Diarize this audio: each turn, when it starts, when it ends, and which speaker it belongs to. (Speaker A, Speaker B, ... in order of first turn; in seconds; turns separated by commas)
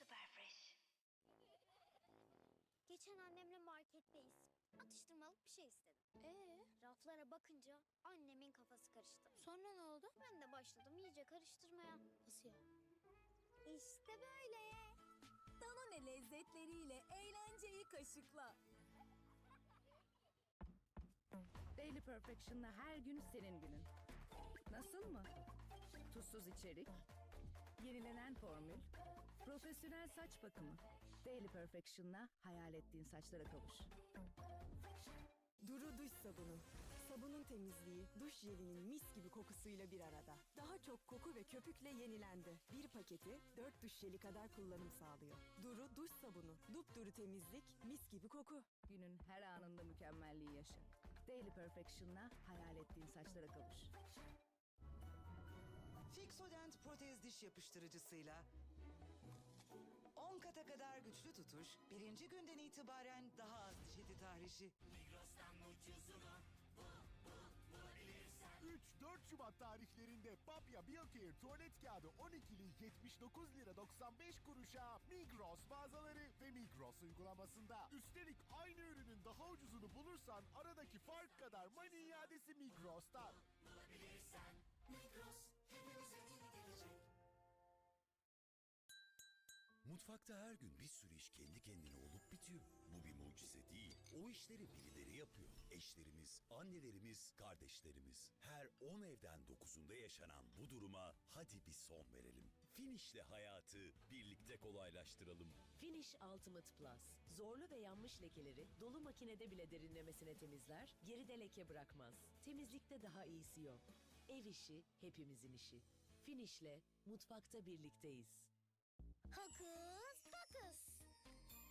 Speaker A: 2.9-12.0, Speaker A: 13.7-14.8, Speaker B: 15.6-18.5, Speaker C: 21.8-23.8, Speaker C: 24.8-25.3, Speaker C: 26.1-26.8, Speaker C: 27.9-28.8, Speaker C: 29.5-30.8, Speaker C: 31.3-33.9, Speaker D: 35.6-48.7, Speaker C: 48.9-53.9, Speaker E: 56.1-58.4, Speaker E: 60.2-64.7, Speaker F: 68.6-83.4, Speaker G: 89.8-105.6, Speaker H: 105.7-118.5, Speaker A: 119.4-120.7